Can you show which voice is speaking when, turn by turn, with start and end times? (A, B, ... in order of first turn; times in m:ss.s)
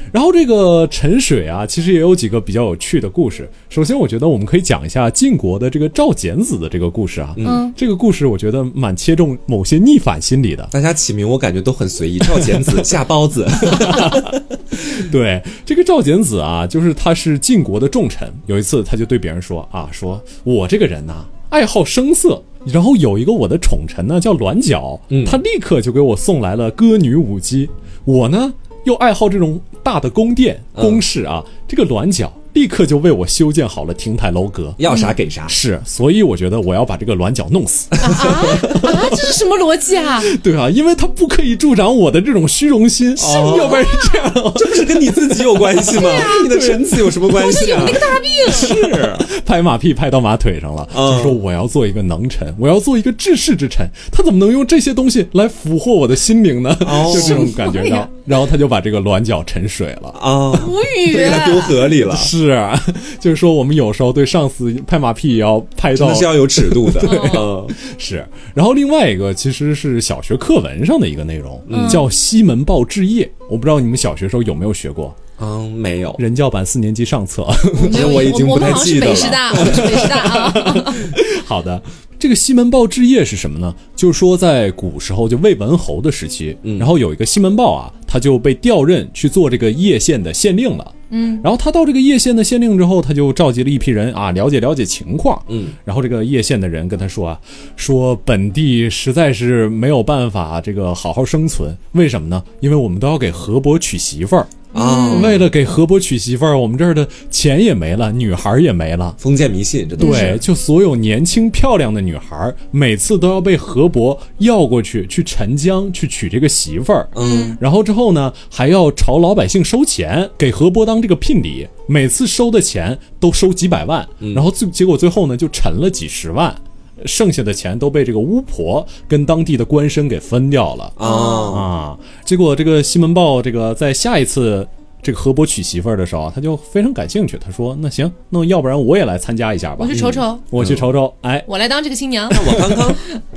0:00.1-0:10.7 A
0:07.4-0:07.6 B
0:07.4-0:07.8 C
0:10.7-0:14.4 B
0:12.4-0:12.7 A
0:13.6-0:34.8 A
0:25.1-0:25.4 B
0:30.8-0:31.0 B
0:34.8-0:35.6 B
0:34.9-0:35.1 C
0:35.5-0:39.3 A
0:38.0-0:40.3 C
0:38.0-0:38.7 B
0:40.2-1:00.2 A
0:43.2-0:43.9 B
0:43.2-0:44.3 C
0:44.5-0:49.3 B
0:45.9-0:46.5 C
0:47.3-0:48.8 C
0:50.9-0:51.4 B
0:56.8-0:57.5 B
0:57.0-0:58.1 C
1:00.1-1:02.3 B
1:00.5-1:01.8 C
1:01.9-1:15.1 A
1:05.9-1:07.8 B
1:07.0-1:07.5 C
1:11.7-1:12.1 B
1:11.7-1:12.0 C
1:15.4-1:16.2 B
1:16.2-1:18.1 A
1:17.7-1:20.3 B
1:17.7-1:21.1 C
1:19.5-1:49.2 A
1:26.6-1:26.9 B
1:31.1-1:31.4 C
1:35.5-1:35.8 B
1:44.7-1:45.4 C
1:44.7-1:45.5 B
1:49.2-1:50.4 B
1:50.0-1:50.4 C
1:50.0-2:20.0 A
1:57.1-1:57.6 B
1:57.2-1:57.6 C
2:04.2-2:04.5 B
2:11.0-2:11.7 B
2:11.0-2:11.6 C
2:19.8-2:20.5 C
2:19.9-2:20.9 B
2:20.5-2:21.5 A
2:21.5-2:23.1 C
2:22.3-2:23.0 B
2:22.4-2:22.8 A